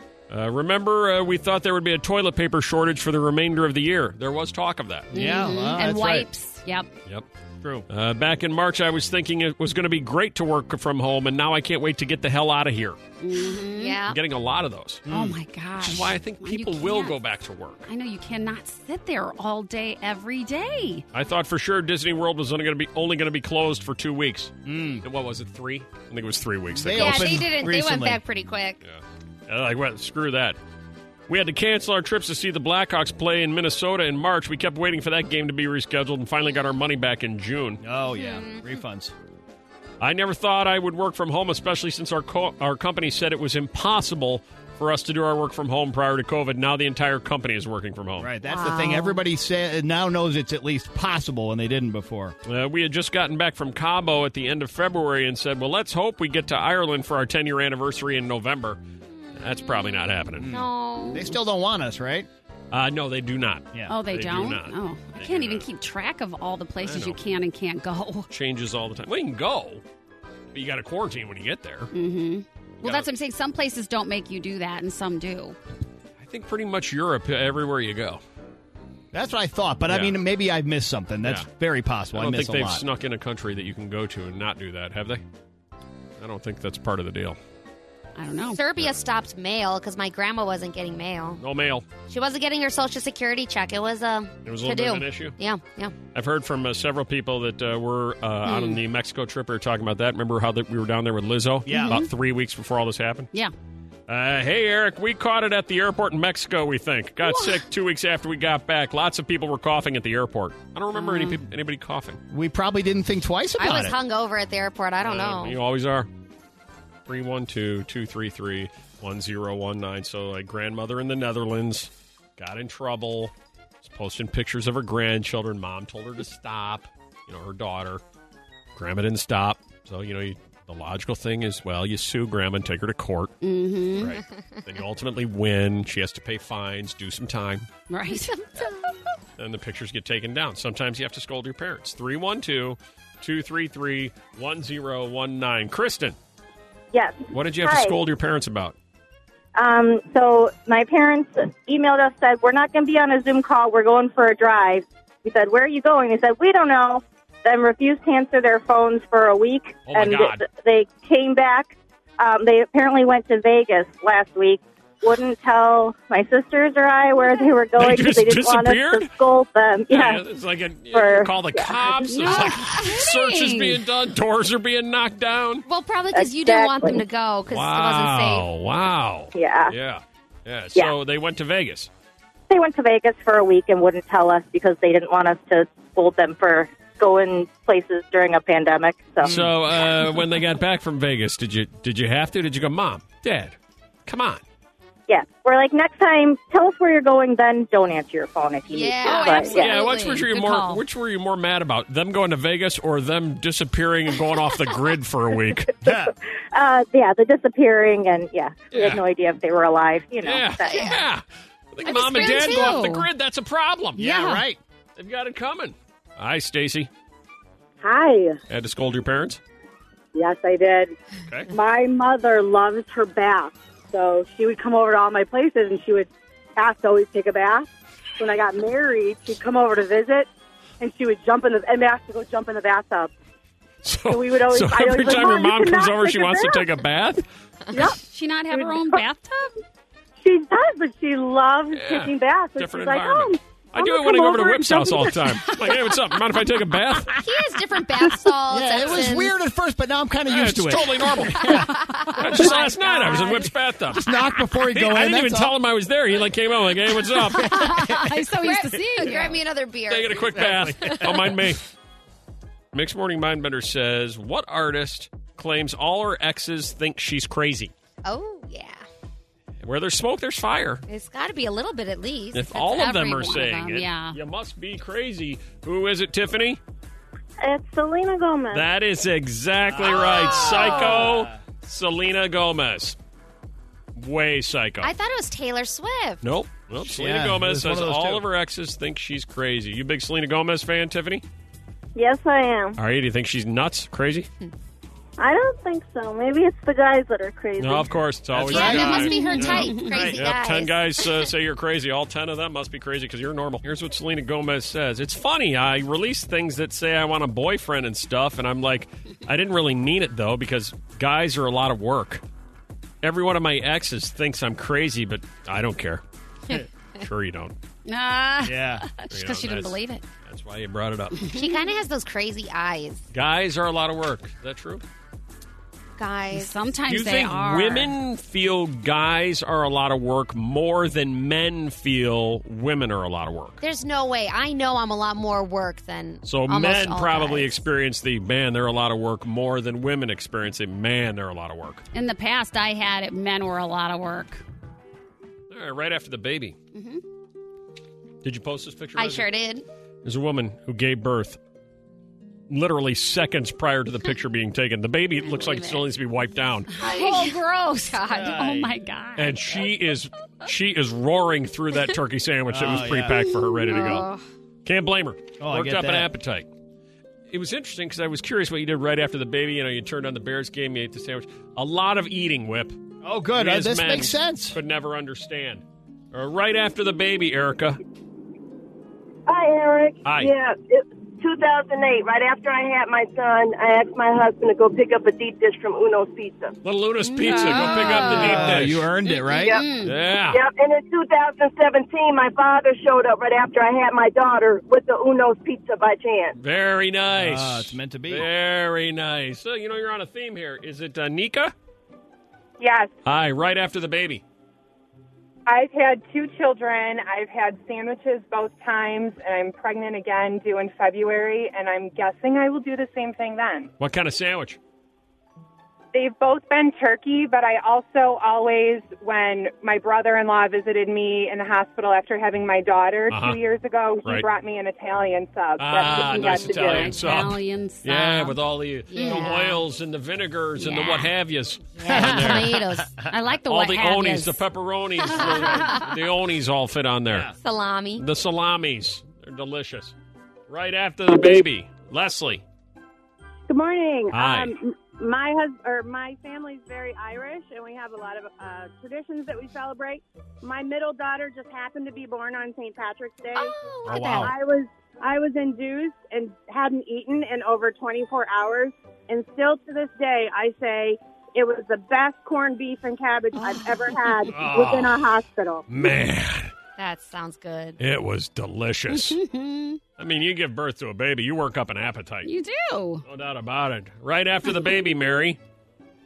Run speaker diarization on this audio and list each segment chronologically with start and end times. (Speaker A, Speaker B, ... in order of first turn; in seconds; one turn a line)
Speaker A: 0.3-5.1
Speaker B: 5.1-6.3
Speaker C: 5.1-6.9
Speaker A: 7.9-13.0
Speaker C: 13.2-14.0
Speaker D: 13.7-14.2
Speaker A: 14.0-15.1
Speaker B: 15.1-15.4
Speaker C: 15.1-17.1
Speaker A: 15.8-17.9
Speaker C: 17.9-21.0
Speaker A: 21.1-27.4
Speaker B: 24.6-25.0
Speaker B: 26.7-28.2
Speaker D: 26.9-28.8
Speaker A: 28.8-30.6
Speaker A: 31.3-37.8
Speaker B: 37.8-39.1
Speaker D: 38.1-38.6
Speaker A: 40.0-48.3
Speaker B: 48.2-52.3
Speaker D: 48.5-49.1
Speaker A: 52.4-58.8
Speaker D: 59.2-61.2
Speaker A: 59.3-60.5
Speaker B: 60.4-62.3
Speaker A: 62.7-65.7
Speaker C: 63.9-68.3
Speaker A: 66.8-67.2
Speaker A: 68.3-69.8
Speaker A: 70.5-71.9
Speaker C: 71.9-75.5
Speaker A: 72.8-73.1
Speaker A: 76.2-78.2
Speaker B: 79.1-82.8
Speaker A: 79.9-80.2
Speaker A: 82.1-85.2
Speaker A: 86.2-87.4
Speaker C: 88.2-88.6
Speaker D: 88.5-91.4
Speaker A: 91.4-91.9
Speaker D: 92.1-96.0
Speaker A: 94.4-95.3
Speaker A: 96.1-103.3
Speaker C: 98.5-98.7
Speaker B: 101.7-102.0
Speaker C: 101.7-102.1
Speaker A: 104.1-112.2
Speaker C: 111.0-111.4
Speaker B: 112.3-113.9
Speaker D: 113.6-115.6
Speaker A: 115.0-116.1
Speaker A: 117.0-128.0
Speaker A: 128.7-133.4
Speaker C: 133.4-134.1
Speaker A: 133.9-137.7
Speaker C: 137.9-138.4
Speaker D: 138.6-138.9
Speaker A: 139.4-146.2
Speaker E: 146.9-147.9
Speaker A: 147.3-148.8
Speaker E: 149.5-170.2
Speaker A: 159.9-160.4
Speaker A: 167.8-169.2
Speaker A: 169.9-175.6
Speaker E: 170.9-172.3
Speaker C: 172.1-173.8
Speaker D: 175.7-178.5
Speaker E: 176.1-177.0
Speaker A: 177.5-181.9
Speaker E: 179.3-179.7
Speaker E: 182.5-189.4
Speaker A: 189.2-194.4
Speaker E: 195.1-199.6
Speaker D: 198.7-200.2
Speaker C: 199.0-200.8
Speaker A: 199.5-205.7
Speaker B: 205.8-206.1
Speaker E: 205.9-210.9
Speaker A: 208.7-209.0
Speaker A: 210.2-214.2
Speaker D: 210.6-210.9
Speaker C: 211.8-213.1
Speaker B: 214.0-214.6
Speaker C: 214.0-214.4
Speaker A: 214.9-216.9
Speaker F: 217.8-218.4
Speaker A: 218.5-219.4
Speaker F: 220.1-220.9
Speaker F: 221.5-230.3
Speaker F: 230.8-233.1
Speaker A: 233.8-237.2
Speaker F: 234.1-236.7
Speaker F: 237.7-238.0
Speaker C: 237.9-239.5
Speaker F: 238.5-239.0
Speaker F: 240.2-245.1
Speaker A: 241.7-247.1
Speaker D: 247.2-249.3
Speaker B: 248.5-251.7
Speaker A: 250.2-254.0
Speaker D: 251.5-253.5
Speaker C: 252.3-253.5
Speaker B: 253.9-255.5
Speaker A: 254.7-257.7
Speaker C: 257.3-259.4
Speaker B: 257.5-258.2
Speaker D: 258.4-260.4
Speaker A: 259.9-261.6
Speaker B: 260.4-261.1
Speaker A: 262.7-267.7
Speaker D: 268.0-268.8
Speaker A: 269.6-270.8
Speaker D: 270.9-272.7
Speaker A: 272.3-276.6
Speaker C: 272.6-274.2
Speaker G: 277.4-278.4
Speaker H: 277.6-278.6
Speaker A: 278.5-283.0
Speaker B: 279.7-281.4
Speaker A: 283.9-284.9
Speaker D: 284.8-286.2
Speaker A: 286.2-291.2
Speaker B: 286.8-288.2
Speaker G: 292.0-292.7
Speaker A: 292.8-294.3
Speaker G: 295.2-297.9
Speaker A: 297.6-312.2
Speaker B: 298.3-299.1
Speaker D: 298.4-301.2
Speaker C: 298.7-300.2
Speaker A: 313.0-316.0
Speaker A: 317.0-317.5
Speaker C: 317.9-320.0
Speaker B: 318.4-318.9
Speaker A: 319.1-321.2
Speaker C: 321.2-321.4
Speaker D: 321.3-323.0
Speaker A: 323.1-324.8
Speaker D: 326.0-326.5
Speaker C: 326.3-327.9
Speaker A: 326.9-333.6
Speaker D: 333.6-337.6
Speaker A: 336.2-341.8
Speaker C: 341.9-344.4
Speaker A: 345.5-346.6
Speaker A: 348.2-349.3
Speaker D: 348.9-349.6
Speaker A: 350.0-351.4
Speaker A: 352.5-356.8
Speaker D: 355.4-355.8
Speaker C: 356.7-359.5
Speaker D: 356.8-358.4
Speaker B: 358.1-358.7
Speaker A: 359.1-364.1
Speaker B: 362.5-363.2
Speaker D: 363.7-364.2
Speaker C: 363.7-364.0
Speaker A: 364.6-366.5
Speaker B: 365.4-366.1
Speaker A: 367.3-372.8
Speaker B: 373.0-374.6
Speaker A: 373.3-377.8
Speaker H: 379.3-386.6
Speaker A: 380.0-380.3
Speaker A: 386.6-388.9
Speaker C: 387.1-389.9
Speaker B: 387.9-389.6
Speaker H: 389.4-396.4
Speaker A: 389.8-390.4
Speaker A: 396.4-401.5
Speaker B: 397.1-398.3
Speaker I: 402.6-402.9
Speaker A: 403.0-404.2
Speaker I: 405.5-413.7
Speaker A: 413.8-414.6
Speaker I: 415.9-427.0
Speaker A: 423.1-423.4
Speaker A: 425.6-432.6
Speaker C: 426.5-428.4
Speaker D: 428.9-429.5
Speaker C: 428.9-429.6
Speaker D: 430.7-431.1
Speaker D: 431.8-433.1
Speaker B: 431.9-433.0
Speaker C: 433.0-434.4
Speaker A: 433.4-437.3
Speaker D: 435.1-435.8
Speaker C: 435.1-435.9
Speaker D: 437.4-438.1
Speaker A: 437.9-439.9
Speaker A: 440.5-442.4
Speaker G: 443.5-465.6
Speaker A: 444.1-444.5
Speaker D: 453.3-454.3
Speaker A: 453.9-454.3
Speaker C: 463.4-464.4
Speaker A: 464.3-465.1
Speaker A: 465.7-466.5
Speaker D: 466.8-467.8
Speaker A: 467.8-469.2
Speaker C: 468.9-469.8
Speaker A: 470.0-472.3
Speaker C: 472.2-473.0
Speaker A: 473.1-475.4